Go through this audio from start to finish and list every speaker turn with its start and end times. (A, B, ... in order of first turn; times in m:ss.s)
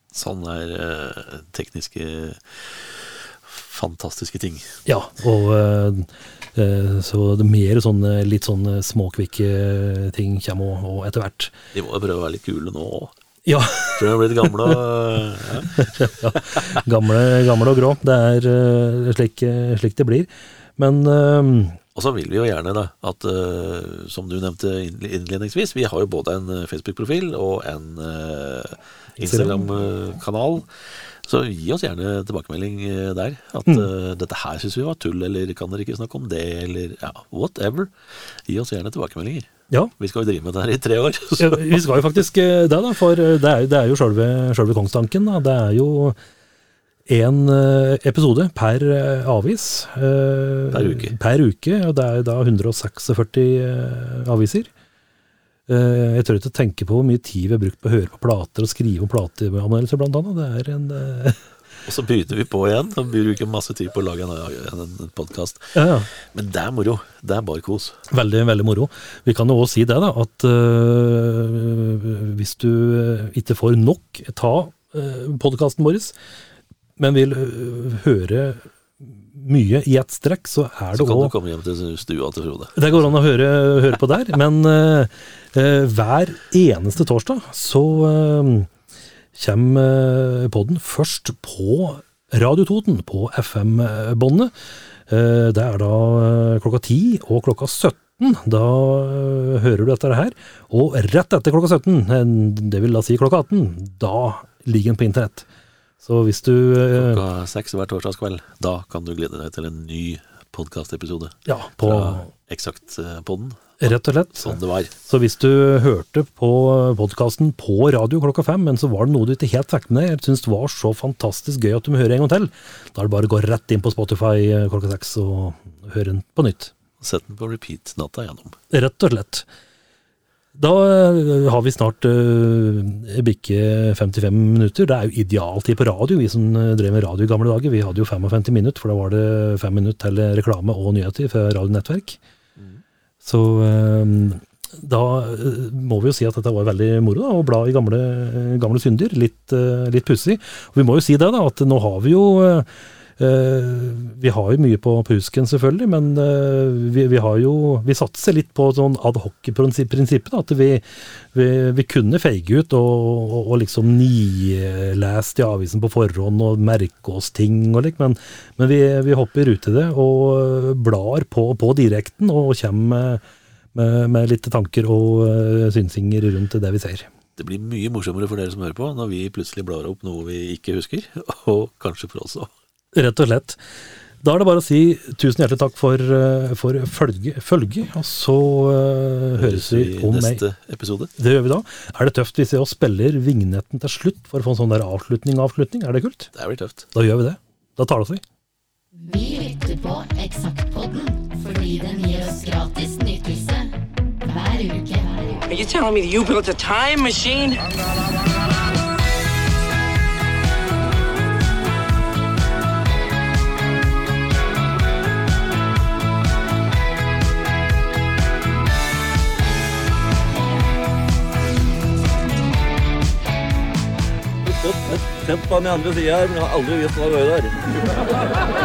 0:00.1-0:04.8 A
0:04.8-0:11.5 B
0:11.7-0:13.1 A
0:13.4-0:14.8 B
0:13.9-0:16.8 A
0:15.8-0:21.8 B
0:21.9-0:41.8 A
0:29.2-0:29.7 B
0:41.4-0:46.2 B
0:47.1-0:54.7 B
0:50.7-0:51.1 A
0:55.7-1:01.4 B
1:01.8-1:08.0 A
1:05.7-1:06.1 B
1:08.1-1:16.1 B
1:17.0-1:21.3 B
1:20.9-1:23.0 A
1:22.8-1:28.7 B
1:29.3-1:34.5 B
1:35.1-1:45.4 B
1:46.0-1:47.2 B
1:46.9-1:54.9 A
1:51.4-1:52.3 B
1:53.8-2:06.7 B
2:07.0-2:08.6 A
2:08.7-2:09.4 B
2:10.6-2:22.2 B
2:23.2-2:53.2 B
2:53.7-2:57.1 B
2:57.4-3:02.5 A
3:02.9-3:03.6 B
3:04.2-3:10.4 B
3:09.4-3:11.1 A
3:11.2-3:16.3 B
3:16.3-3:16.9 A
3:16.9-3:18.2 B
3:18.9-3:25.5 C
3:25.5-3:27.6 D
3:44.4-3:48.1 E